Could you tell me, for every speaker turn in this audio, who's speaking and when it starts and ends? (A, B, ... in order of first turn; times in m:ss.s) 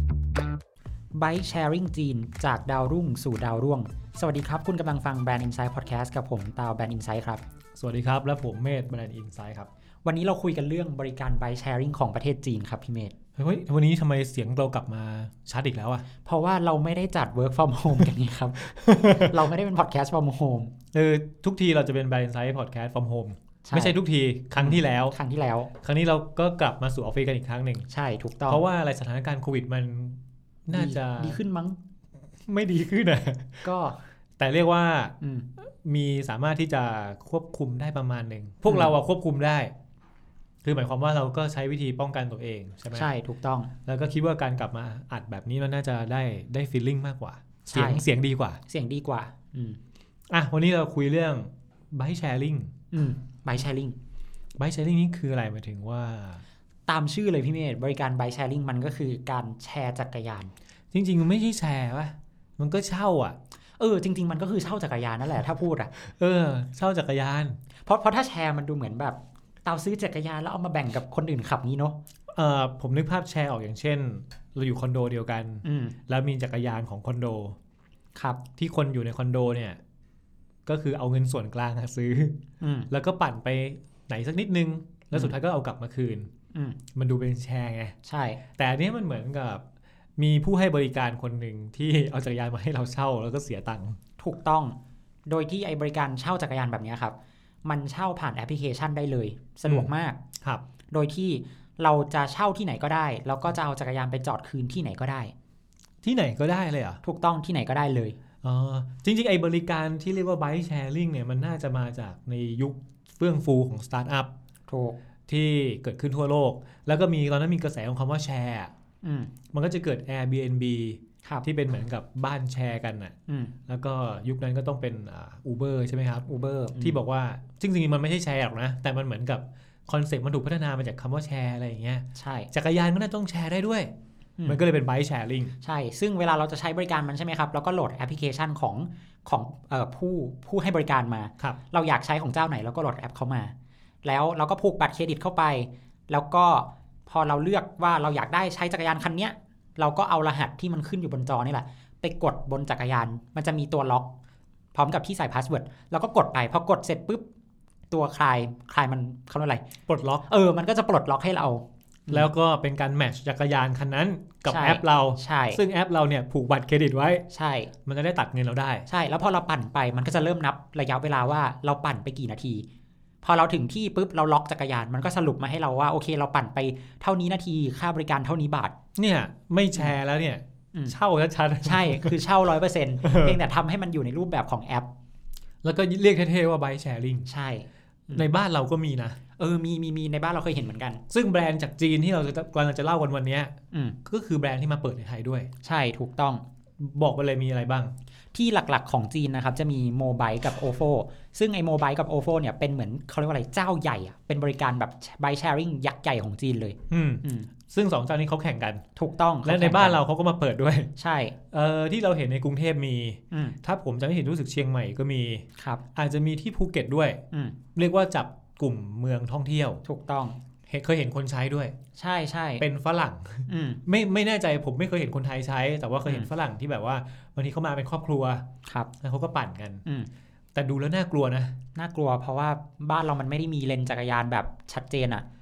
0:01.1-0:07.4 A
0:07.8-0:09.7 B
0:10.0-0:13.1 A
0:13.4-0:16.0 B
0:16.2-0:20.7 A
0:18.7-0:19.4 B
0:20.9-0:25.2 B
0:23.7-0:24.0 A
0:24.6-0:25.7 A
0:25.8-0:27.9 B
0:27.9-0:28.6 A
0:28.5-0:31.4 B
0:30.7-0:31.8 A
0:32.4-0:33.7 B
0:33.6-0:34.0 A
0:34.4-0:35.2 B
0:35.2-0:35.5 A
0:35.7-0:39.7 B
0:38.7-0:38.9 A
0:40.6-0:43.1 B
0:42.9-0:43.7 A
0:43.9-0:48.6 B
0:47.7-0:48.0 A
0:48.7-0:49.8 A
0:50.3-0:52.7 B
0:52.9-0:54.0 A
0:54.6-0:56.4 B
0:56.9-1:00.5 A
1:00.9-1:03.4 B
1:03.8-1:05.9 A
1:06.0-1:07.6 B
1:07.8-1:12.0 A
1:12.3-1:17.6 B
1:15.6-1:16.0 A
1:18.2-1:18.4 A
1:18.6-1:19.8 B
1:20.7-1:22.4 B
1:22.6-1:22.9 A
1:22.9-1:26.3 B
1:27.0-1:28.0 B
1:28.0-1:28.4 A
1:28.6-1:29.6 B
1:30.2-1:34.0 B
1:34.2-1:34.8 A
1:35.3-1:40.2 A
1:40.9-1:45.3 A
1:46.0-1:47.0 B
1:47.0-1:48.2 A
1:48.4-1:54.3 B
1:54.7-1:55.0 A
1:55.3-1:58.7 B
1:59.0-1:59.3 A
1:59.5-2:03.1 B
2:03.3-2:03.5 A
2:03.7-2:06.3 B
2:06.3-2:07.0 A
2:06.8-2:13.9 B
2:12.1-2:12.5 A
2:14.4-2:15.5 B
2:15.6-2:34.1 A
2:34.7-2:37.2 A
2:37.9-2:39.6 A
2:39.9-2:40.2 B
2:40.3-2:42.3 A
2:42.1-2:47.2 B
2:44.4-2:45.6 A
2:47.3-2:47.7 A
2:47.8-2:48.9 B
2:48.9-2:52.7 A
2:53.2-2:58.7 A
2:59.0-3:02.1 B
3:01.6-3:04.9 A
3:03.0-3:03.4 B
3:05.6-3:07.3 B
3:07.2-3:08.3 A
3:08.1-3:09.2 B
3:09.4-3:11.0 A
3:11.1-3:13.5 B
3:14.0-3:15.5 B
3:15.6-3:16.4 A
3:16.8-3:17.9 B
3:18.3-3:27.5 A
3:26.9-3:28.8 B
3:29.0-3:30.0 A
3:29.4-3:30.9 B
3:31.0-3:31.3 A
3:31.5-3:37.2 B
3:33.3-3:33.6 A
3:35.6-3:35.8 A
3:37.7-3:39.8 B
3:39.8-3:40.4 A
3:40.7-3:41.7 B
3:42.0-3:42.6 A
3:42.6-3:48.4 B
3:43.5-3:43.8 A
3:49.0-3:49.8 B
3:50.5-3:51.5 B
3:51.8-3:55.2 A